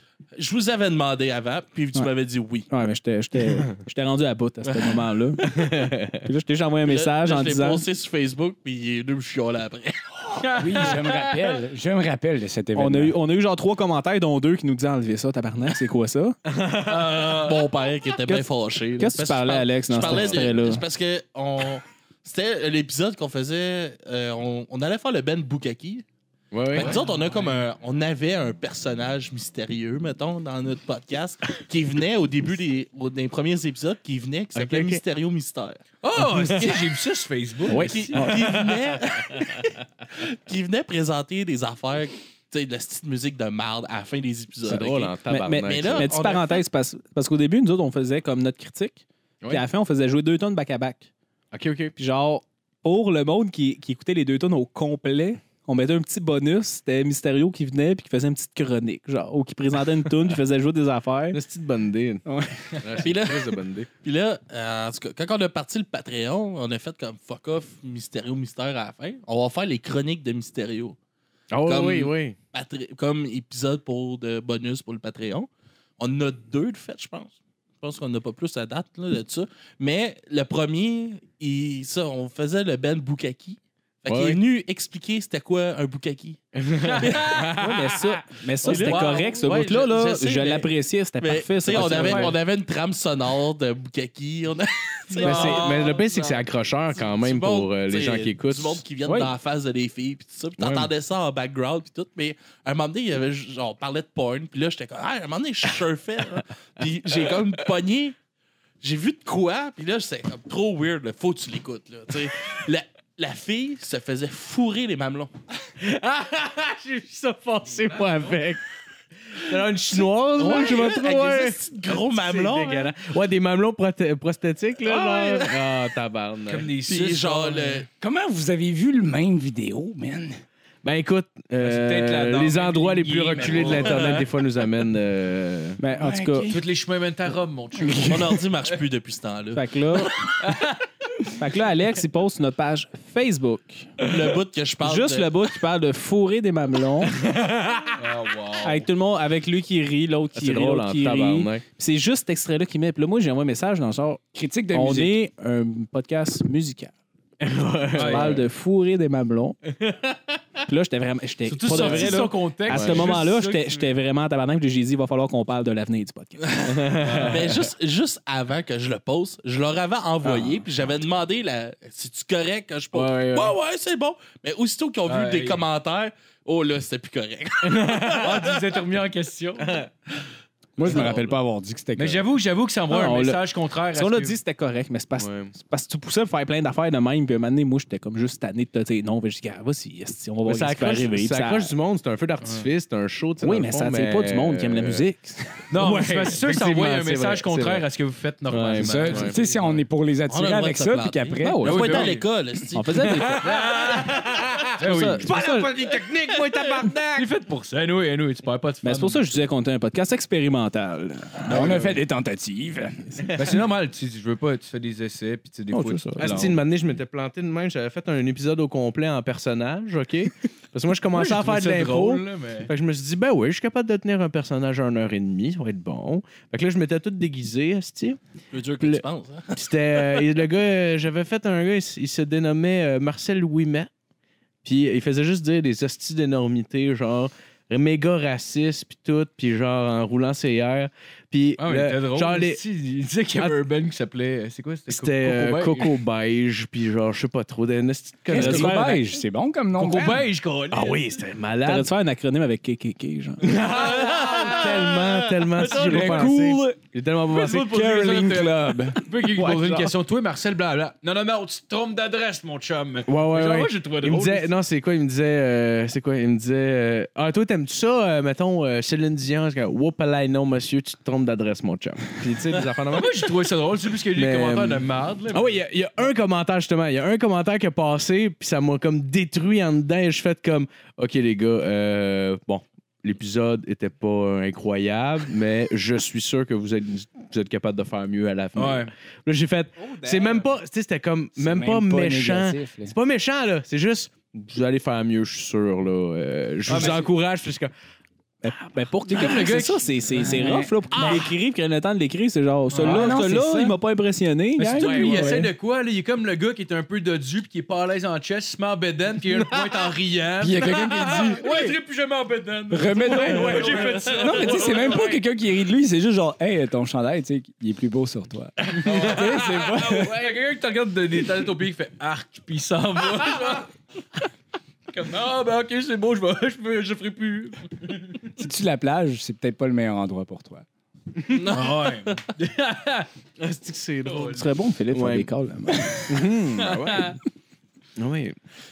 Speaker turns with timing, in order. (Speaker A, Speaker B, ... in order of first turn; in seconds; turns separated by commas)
Speaker A: 0.3-2.7, Speaker B: 2.7-5.5, Speaker C: 5.4-6.3, Speaker B: 6.2-7.8, Speaker A: 6.8-10.5, Speaker D: 10.4-11.3, Speaker E: 10.6-13.2, Speaker B: 12.7-16.4, Speaker D: 16.8-17.7, Speaker A: 17.1-26.1, Speaker B: 19.0-20.8, Speaker C: 26.5-27.0, Speaker A: 26.7-35.8, Speaker D: 26.7-27.0, Speaker C: 34.5-35.0, Speaker D: 36.0-38.3, Speaker C: 36.2-36.8, Speaker C: 37.7-38.8, Speaker A: 37.7-46.6, Speaker C: 44.6-46.1, Speaker B: 45.3-51.1, Speaker C: 51.5-51.9, Speaker B: 52.0-61.4, Speaker C: 61.3-62.2, Speaker C: 62.8-63.9, Speaker A: 63.0-71.0, Speaker C: 71.5-72.4, Speaker A: 71.6-87.3, Speaker C: 84.1-84.4, Speaker C: 86.5-88.2, Speaker D: 86.8-87.5, Speaker B: 87.5-92.3, Speaker D: 88.6-89.5, Speaker A: 88.6-96.4, Speaker D: 91.7-92.4, Speaker D: 95.2-96.0, Speaker C: 95.2-98.8, Speaker A: 96.9-108.2, Speaker C: 100.6-100.9, Speaker A: 108.8-115.3, Speaker C: 115.8-118.6, Speaker C: 119.3-126.7, Speaker A: 120.4-122.9, Speaker A: 124.8-125.6, Speaker D: 126.4-127.8, Speaker A: 126.8-127.9, Speaker E: 128.0-130.4, Speaker C: 130.8-135.8, Speaker D: 131.6-134.3, Speaker B: 135.8-136.5, Speaker E: 135.9-136.7, Speaker D: 136.4-138.4, Speaker E: 137.8-138.2, Speaker A: 138.1-140.3, Speaker B: 139.5-140.2, Speaker D: 140.4-140.8, Speaker B: 141.3-143.9, Speaker A: 144.0-145.3, Speaker B: 144.8-147.2, Speaker C: 147.2-147.9, Speaker D: 148.0-148.9, Speaker B: 148.6-156.9, Speaker C: 150.3-151.6, Speaker E: 154.3-155.2, Speaker C: 157.4-158.4, Speaker B: 157.9-159.6, Speaker D: 157.9-158.4, Speaker B: 160.7-166.6, Speaker D: 161.5-163.8, Speaker C: 161.8-163.3, Speaker C: 166.7-167.7, Speaker D: 167.0-167.4, Speaker A: 167.2-178.3, Speaker C: 170.2-170.6, Speaker C: 172.9-173.6, Speaker D: 175.1-175.6, Speaker C: 177.6-178.4, Speaker D: 178.1-179.9, Speaker E: 180.8-182.3, Speaker A: 180.8-181.3, Speaker D: 181.9-184.4, Speaker B: 182.9-191.7, Speaker C: 185.2-185.5, Speaker C: 190.4-195.1, Speaker B: 193.4-195.6, Speaker D: 195.7-199.8, Speaker C: 195.7-197.8, Speaker C: 198.5-199.4, Speaker E: 198.8-202.2, Speaker A: 200.3-203.2, Speaker B: 201.4-201.7, Speaker D: 201.6-202.3, Speaker B: 202.7-203.5, Speaker C: 203.1-203.6, Speaker D: 203.4-209.4, Speaker B: 204.8-205.7, Speaker C: 206.0-207.2, Speaker B: 208.8-211.8, Speaker E: 211.5-213.2, Speaker D: 211.5-211.9, Speaker D: 213.3-216.7, Speaker B: 215.7-216.4, Speaker C: 216.1-228.2, Speaker D: 221.1-222.7, Speaker A: 228.5-230.3, Speaker C: 228.8-233.9, Speaker C: 234.6-242.6, Speaker D: 241.6-246.0, Speaker C: 243.3-243.6, Speaker C: 244.9-248.9, Speaker E: 248.3-250.2, Speaker B: 248.3-249.0, Speaker D: 249.7-251.2, Speaker C: 250.7-251.9, Speaker B: 251.6-253.5, Speaker C: 253.4-259.9, Speaker D: 253.6-256.4, Speaker E: 255.8-256.8, Speaker D: 257.3-264.5, Speaker E: 257.8-259.0, Speaker C: 263.1-273.4, Speaker D: 272.5-275.6, Speaker C: 274.1-297.7, Speaker D: 288.6-288.9, Speaker E: 291.4-292.9, Speaker D: 296.6-297.1, Speaker B: 298.4-305.5, Speaker D: 299.1-300.5, Speaker E: 300.2-300.7, Speaker D: 302.7-303.2, Speaker E: 302.8-303.8, Speaker D: 304.6-315.2, Speaker E: 304.7-305.5, Speaker E: 310.4-311.7, Speaker E: 312.7-320.3, Speaker C: 313.1-314.1, Speaker D: 318.7-323.7, Speaker D: 324.9-328.3, Speaker E: 328.4-330.6, Speaker A: 331.3-332.2, Speaker D: 331.5-333.1, Speaker C: 333.4-334.4, Speaker D: 334.1-334.5, Speaker B: 334.2-336.1, Speaker C: 334.9-335.3, Speaker C: 336.1-337.2, Speaker D: 336.6-337.1, Speaker C: 338.0-338.4